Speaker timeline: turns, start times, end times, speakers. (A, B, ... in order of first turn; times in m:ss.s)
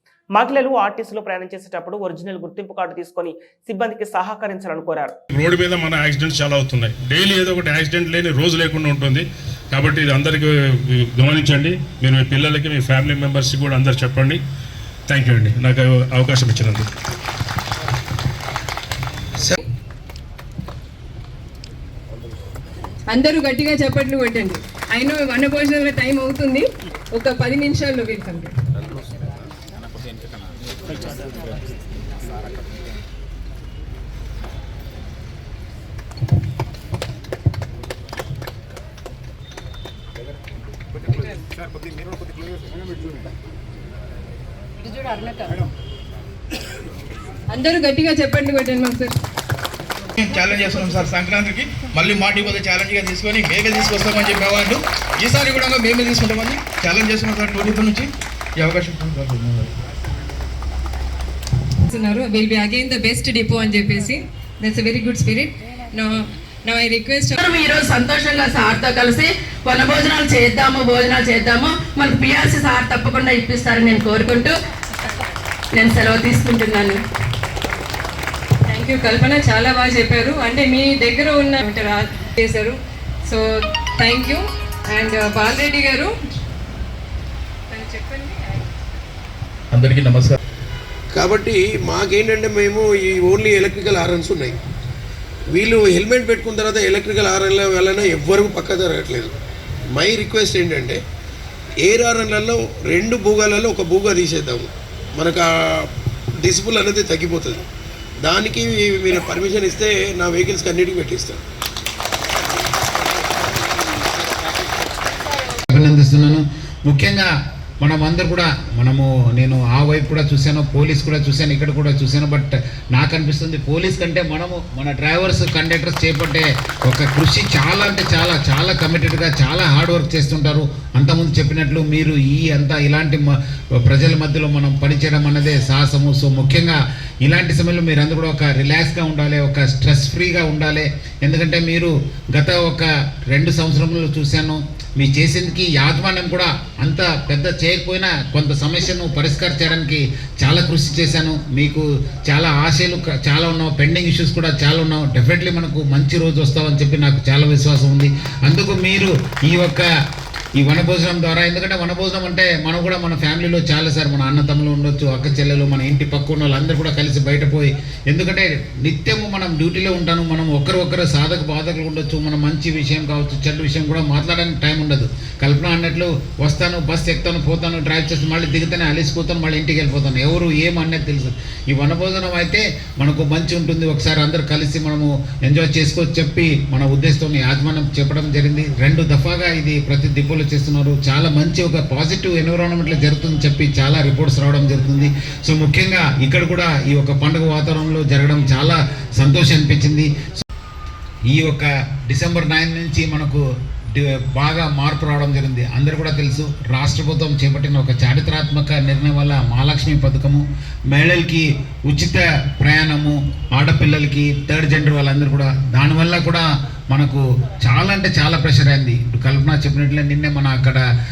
0:00.3-0:05.2 A
0:05.3-0:14.4 B
0:15.1-0:16.9 B
0:23.1-0:28.5 C
0:47.5-0:49.1 C
0:50.2-0:59.7 D
1:01.9-1:07.4 C
1:07.4-1:14.5 E
1:15.7-1:17.0 E
1:18.7-1:23.4 C
1:24.0-1:26.1 C
1:27.7-1:28.6 C
1:29.7-1:30.4 D
1:31.1-1:34.6 F
1:35.5-1:39.3 F
1:39.9-1:41.0 F
1:41.8-1:45.9 F
1:46.4-1:47.6 F
1:48.2-1:51.4 F
1:55.7-1:57.3 G
1:57.8-2:39.9 G
2:40.6-3:20.4 G
3:21.3-3:40.8 G